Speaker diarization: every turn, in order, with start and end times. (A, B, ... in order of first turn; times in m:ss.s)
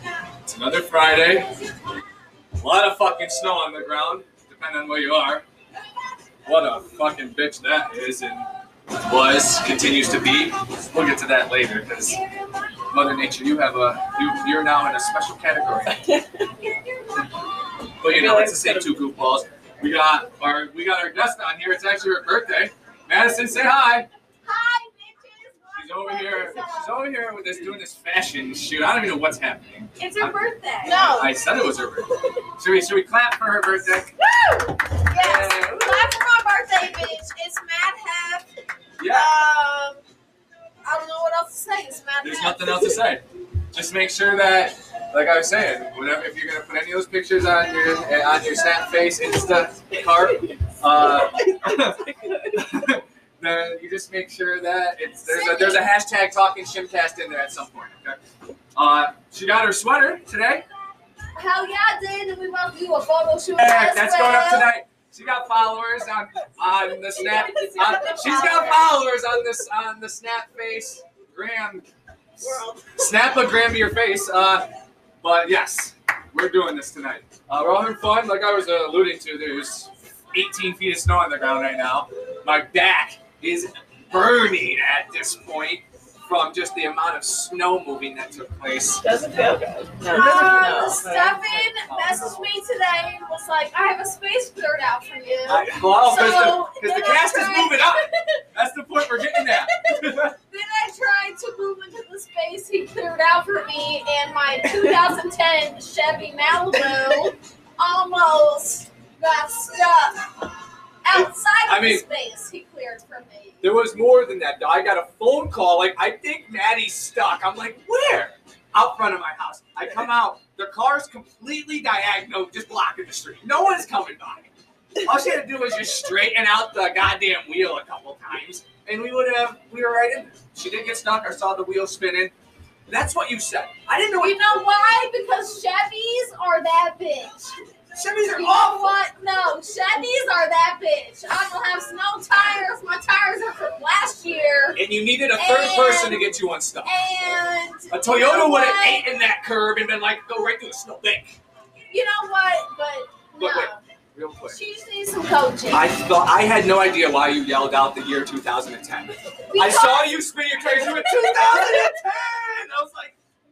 0:00.4-0:01.6 A
0:02.6-0:05.4 A
0:06.4-0:12.2 A
0:12.9-0:16.0 A
0:15.9-0:16.5 B
0:17.9-0:24.1 A
0:18.0-0:19.1 B
0:24.4-0:27.0 C
0:25.7-0:30.4 A
0:30.0-0:31.2 D
0:30.8-0:31.3 C
0:31.1-0:34.1 A
0:34.9-0:38.5 C
0:35.2-0:36.1 A
0:39.0-0:39.4 A
0:39.0-0:40.0 C
0:40.8-0:43.0 C
0:42.2-0:58.2 A
0:51.1-0:52.8 B
0:55.2-0:55.8 C
0:58.7-1:00.6 A
1:01.3-1:04.7 C
1:03.6-1:11.9 A
1:07.1-1:08.9 D
1:07.5-1:08.9 C
1:12.4-1:14.7 A
1:12.4-1:13.0 B
1:15.2-1:29.0 A
1:29.0-1:31.7 B
1:30.1-1:38.1 C
1:30.4-1:30.8 A
1:31.6-1:32.5 A
1:35.4-1:40.3 A
1:39.3-1:50.5 C
1:51.0-1:53.7 C
1:51.1-1:52.0 A
1:53.6-2:12.3 A
2:12.8-2:14.4 A
2:14.2-2:17.6 C
2:17.9-2:19.0 A
2:18.2-2:29.1 C
2:24.7-2:27.0 A
2:27.9-2:31.4 A
2:31.9-2:33.8 C
2:33.4-2:34.6 A
2:34.5-2:35.9 C
2:35.7-2:43.1 A
2:39.5-2:42.3 C